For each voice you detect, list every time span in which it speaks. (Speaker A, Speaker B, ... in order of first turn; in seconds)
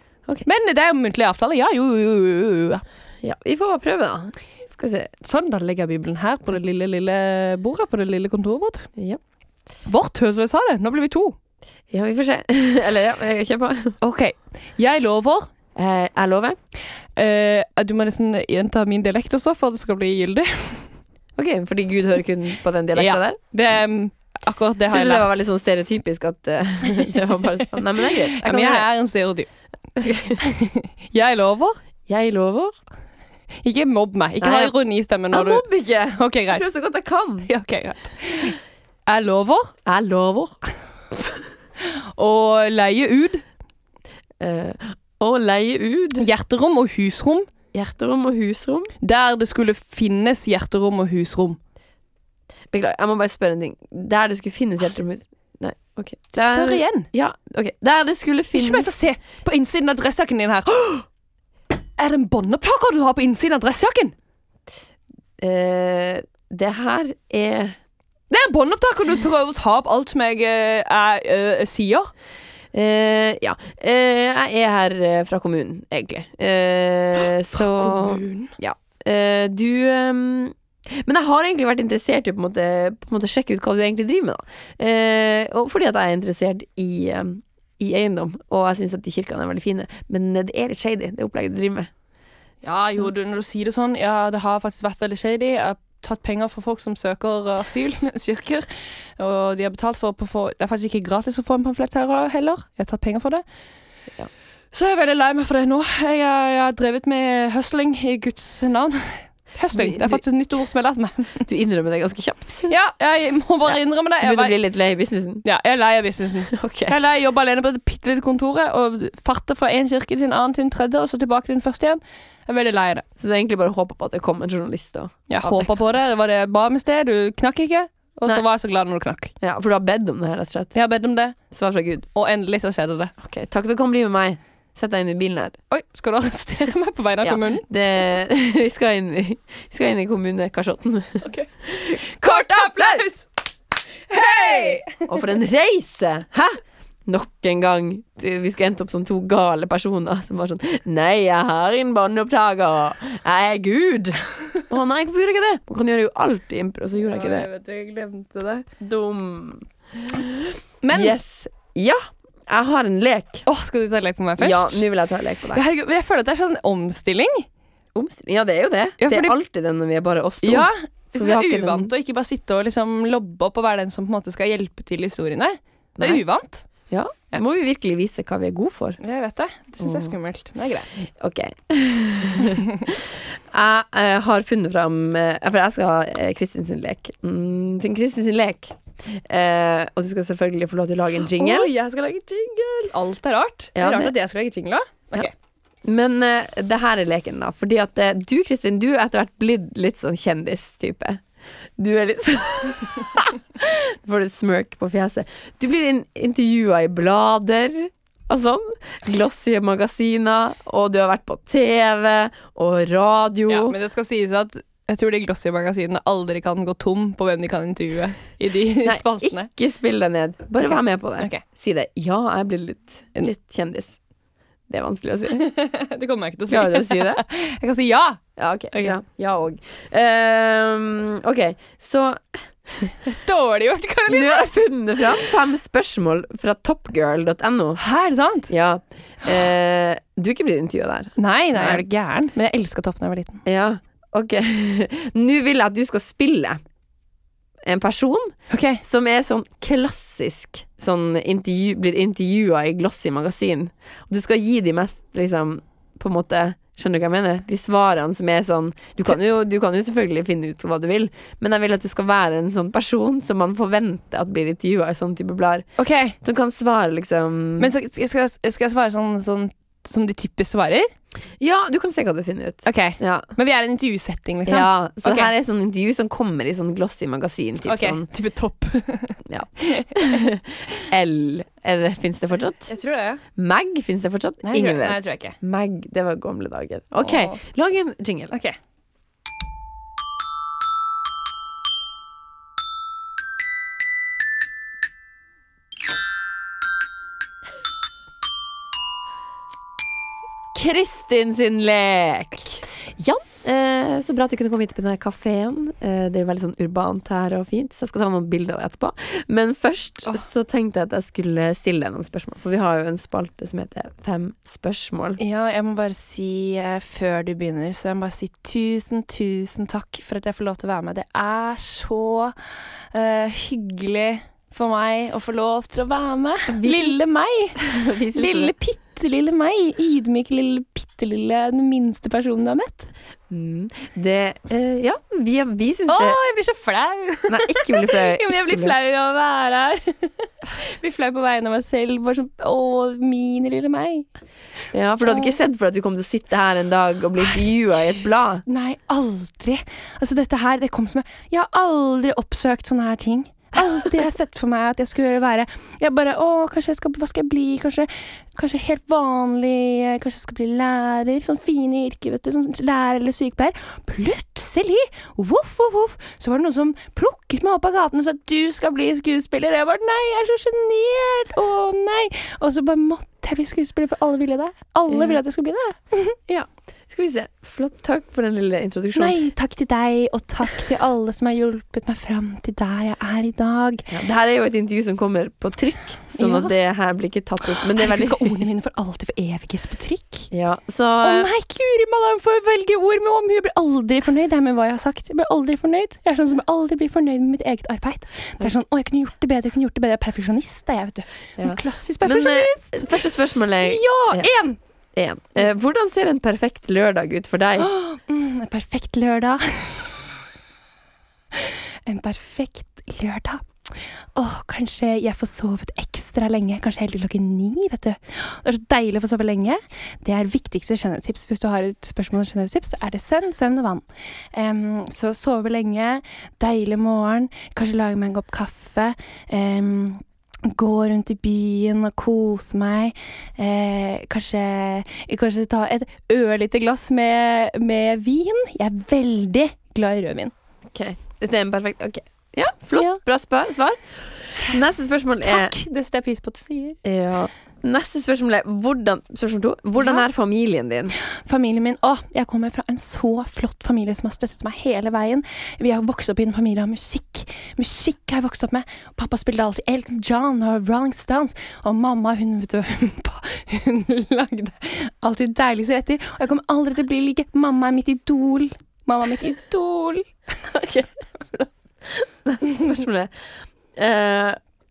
Speaker A: 0.4-2.8, 5.2-8.9, 9.8-11.3, 14.0-15.5, 17.2-20.9, 22.9-25.4, 28.0-29.5, 30.0-31.8, 33.6-36.7, 37.4-39.7, 41.8-43.4, 46.2-47.5, 49.0-51.6, 56.4-57.1, 58.5-61.0, 62.0-64.1, 68.3-72.1, 77.5-78.5, 92.6-98.7, 99.2-103.4, 104.7-111.5, 112.7-114.5, 115.4-123.0, 125.3-129.3, 130.7-131.4, 132.1-133.1, 135.7-137.6, 141.2-143.3, 144.1-145.1, 157.0-158.7, 160.8-161.2, 163.4-164.8, 165.5-167.5, 169.0-169.3, 170.4-176.6, 179.0-181.1, 191.3-195.3, 213.5-219.5, 220.6-221.4, 225.3-228.2, 233.1-234.5, 237.8-238.5, 241.2-243.4, 248.5-248.8, 265.8-266.1, 267.6-270.9, 272.6-275.3, 277.6-280.0, 282.7-283.2, 284.4-285.4, 287.0-287.4, 288.3-288.6, 315.2-322.3, 322.9-327.6, 328.1-332.9, 335.9-344.1, 345.1-345.3, 348.4-376.1, 378.9-383.9, 386.2-386.5, 387.6-390.3, 391.0-403.1, 403.6-404.6, 407.6-410.0, 411.3-413.4, 414.1-440.3, 445.2-446.8, 451.0-470.1
Speaker B: 3.2-5.1, 11.9-14.0, 15.7-16.6, 21.4-23.4, 24.9-28.9, 30.0-30.4, 32.1-32.8, 34.4-34.7, 35.3-37.5, 39.9-40.6, 44.4-46.3, 47.7-48.9, 52.7-58.9, 65.4-67.8, 72.7-91.9, 109.7-110.2, 111.5-112.7, 113.7-115.4, 116.5-117.0, 123.2-125.7, 129.4-130.7, 131.5-132.1, 133.2-135.6, 137.2-143.0, 144.1-157.5, 158.8-163.4, 164.4-165.6, 167.9-171.9, 176.9-179.0, 179.8-180.1, 181.1-191.7, 193.8-194.1, 195.8-201.2, 201.8-213.7, 218.8-224.0, 224.7-225.4, 226.5-227.2, 228.4-232.9, 234.1-237.8, 238.5-241.8, 243.4-246.6, 247.6-265.7, 266.2-267.7, 271.4-273.3, 274.4-278.1, 279.2-282.7, 283.4-288.3, 300.5-315.2, 326.5-327.0, 327.6-328.5, 333.3-336.2, 337.3-338.7, 344.7-348.4, 374.9-375.2, 376.3-379.1, 383.9-388.4, 390.3-391.3, 401.4-404.3, 404.9-407.7, 440.7-445.6, 446.8-450.9, 470.5-473.1, 473.8-474.4